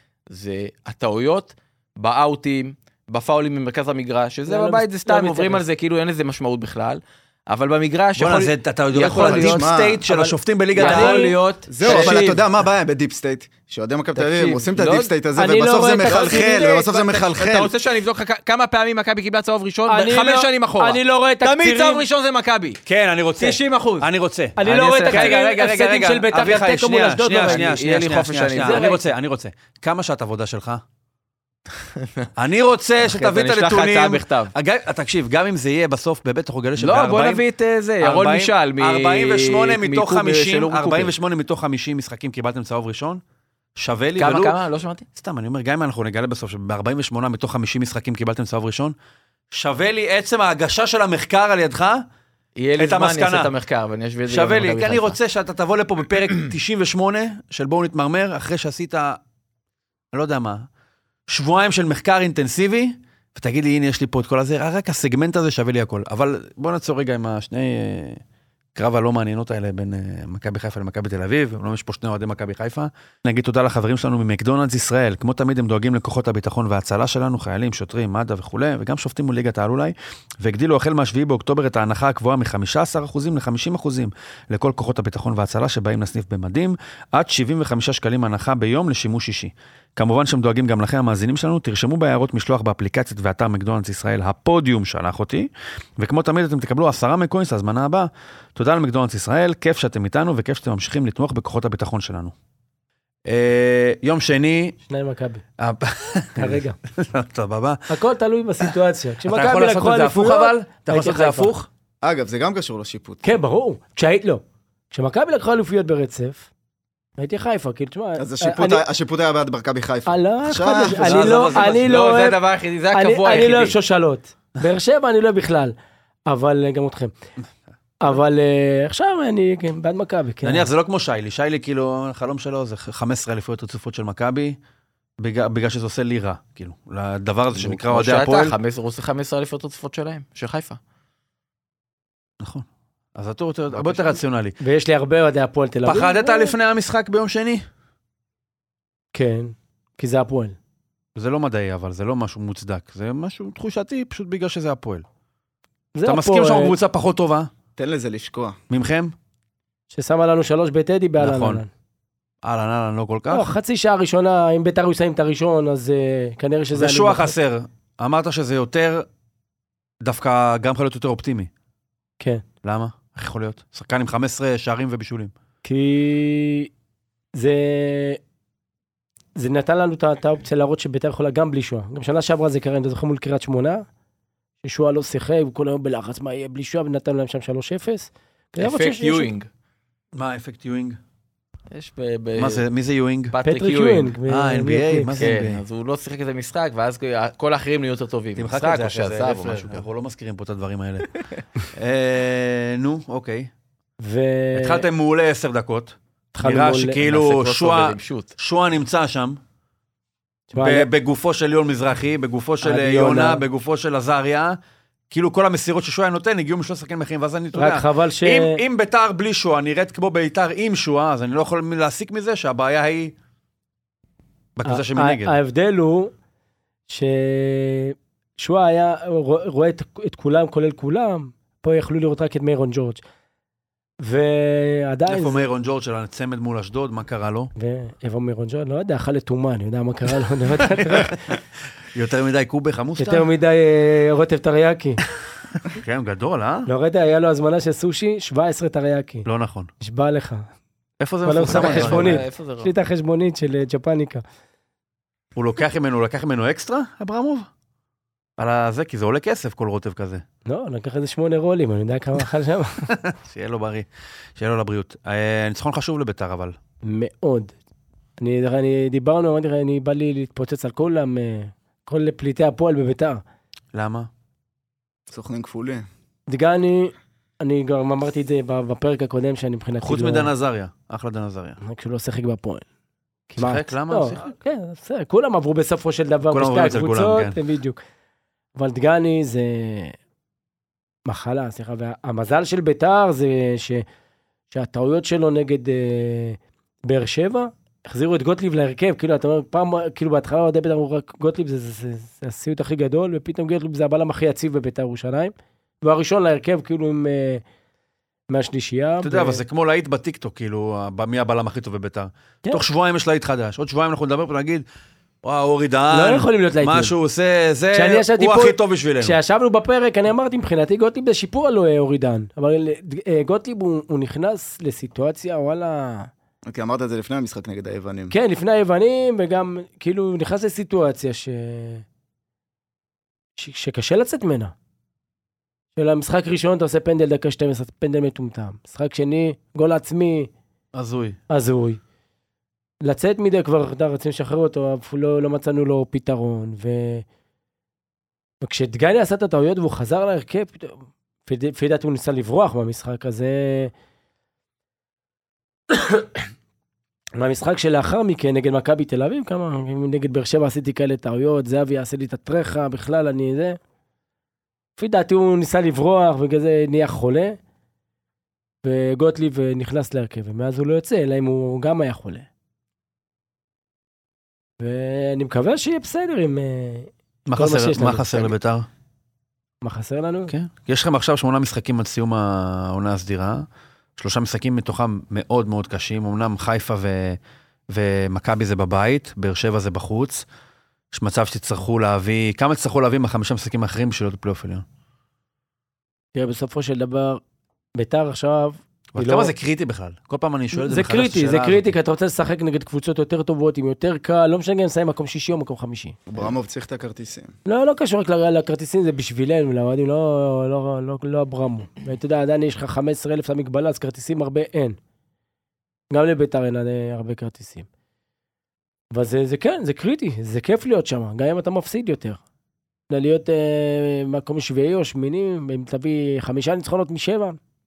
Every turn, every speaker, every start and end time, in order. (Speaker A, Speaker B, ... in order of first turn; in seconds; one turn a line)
Speaker A: 0.3-9.7
Speaker B: 4.5-5.6
Speaker C: 8.2-11.3
Speaker D: 9.2-10.0
Speaker B: 10.1-11.4
Speaker A: 10.8-12.4
Speaker D: 11.7-17.7
Speaker A: 14.2-15.1
Speaker B: 15.4-16.7
Speaker A: 16.1-22.8
Speaker B: 19.9-22.0
Speaker C: 22.9-30.8
Speaker A: 23.4-24.1
Speaker B: 24.6-27.7
Speaker A: 24.6-25.4
Speaker A: 27.4-29.0
Speaker B: 28.6-29.0
Speaker A: 32.0-32.3
Speaker C: 32.4-37.4
Speaker A: 33.0-34.5
Speaker A: 36.8-41.1
Speaker C: 38.0-43.2
Speaker C: 43.8-44.6
Speaker A: 44.2-45.1
Speaker C: 45.2-49.0
Speaker C: 49.5-52.0
Speaker A: 52.6-55.2
Speaker C: 52.8-53.5
Speaker C: 54.3-59.2
Speaker C: 60.1-60.7
Speaker C: 61.3-68.2
Speaker C: 68.8-102.3
Speaker C: 103.3-104.8
Speaker B: 104.9-105.4
Speaker C: 105.6-107.9
Speaker B: 106.4-106.8
Speaker B: 107.9-111.5
Speaker C: 109.3-111.7
Speaker D: 112.0-113.3
Speaker B: 113.2-116.5
Speaker B: 117.2-118.8
Speaker D: 118.2-121.2
Speaker B: 120.1-122.4
Speaker C: 121.0-122.0
Speaker A: 121.1-123.8
Speaker B: 122.9-125.7
Speaker B: 126.3-127.1
Speaker B: 128.0-130.7
Speaker C: 130.4-134.6
Speaker C: 135.2-138.6
Speaker A: 137.5-140.8
Speaker C: 142.4-144.6
Speaker A: 143.8-144.1
Speaker B: 144.6-146.5
Speaker C: 145.8-147.7
Speaker B: 149.1-150.6
Speaker C: 151.2-155.1
Speaker B: 155.9-156.8
Speaker C: 156.1-157.5
Speaker D: 157.8-158.6
Speaker C: 158.7-159.1
Speaker B: 159.9-161.7
Speaker C: 161.2-161.6
Speaker C: 162.4-163.5
Speaker B: 163.3-167.3
Speaker C: 166.8-169.1
Speaker C: 170.0-171.5
Speaker C: 172.6-175.3
Speaker B: 175.6-176.7
Speaker B: 177.3-178.2
Speaker B: 179.4-183.8
Speaker B: 184.6-189.3
Speaker A: 188.6-189.5
Speaker C: 190.2-191.0
Speaker A: 191.7-192.7
Speaker C: 192.4-193.3
Speaker A: 193.3-194.1
Speaker B: 193.4-195.2
Speaker C: 194.2-195.6
Speaker A: 195.2-199.9
Speaker C: 198.4-203.5
Speaker B: 204.0-204.9
Speaker C: 204.6-209.4
Speaker B: 206.3-207.0
Speaker A: 207.0-208.3
Speaker B: 210.5-210.9
Speaker C: 210.6-214.6
Speaker B: 212.6-213.4
Speaker C: 215.1-223.1
Speaker B: 217.5-218.6
Speaker C: 224.6-225.3
Speaker B: 224.7-226.1
Speaker B: 226.9-233.0
Speaker B: 234.0-235.4
Speaker C: 235.1-237.5
Speaker B: 237.6-241.2
Speaker C: 240.7-241.4
Speaker C: 241.9-243.3
Speaker B: 243.0-245.0
Speaker C: 245.7-246.7
Speaker B: 246.7-249.3
Speaker C: 249.3-249.7
Speaker B: 249.8-250.5
Speaker C: 251.0-252.2
Speaker B: 251.2-254.2
Speaker A: 251.4-252.7
Speaker C: 255.4-257.5
Speaker C: 258.4-260.2
Speaker B: 260.5-262.9
Speaker C: 262.9-266.6
Speaker B: 266.8-267.6
Speaker B: 268.2-273.2
Speaker C: 273.7-274.1
Speaker D: 275.1-275.9
Speaker B: 276.3-280.3
Speaker C: 279.8-281.6
Speaker B: 281.6-282.6
Speaker B: 283.3-287.8
Speaker C: 283.4-284.3
Speaker C: 286.3-287.4
Speaker B: 288.6-290.0
Speaker B: 291.1-293.9
Speaker B: 294.5-307.4
Speaker B: 308.3-309.4
Speaker C: 309.0-314.6
Speaker C: 315.2-319.2
Speaker B: 315.9-316.9
Speaker B: 317.7-326.1
Speaker D: 326.5-328.1
Speaker B: 328.1-331.9
Speaker B: 333.4-334.5
Speaker B: 335.8-340.3
Speaker C: 340.8-341.2
Speaker B: 341.3-341.8
Speaker B: 342.8-347.1
Speaker B: 348.4-353.7
Speaker B: 355.7-356.2
Speaker B: 357.2-363.6
Speaker B: 364.8-367.4
Speaker B: 368.6-372.3
Speaker B: 374.6-378.3
Speaker C: 377.3-378.7
Speaker B: 379.6-380.3
Speaker C: 380.3-383.5
Speaker C: 384.0-387.2
Speaker C: 387.7-390.2
Speaker C: 390.9-394.6
Speaker B: 396.1-397.2
Speaker B: 397.8-399.3
Speaker C: 398.9-401.7
Speaker B: 400.5-406.0
Speaker D: 406.1-407.3
Speaker B: 407.5-414.8
Speaker B: 415.9-417.7
Speaker B: 418.9-422.2
Speaker B: 422.9-427.4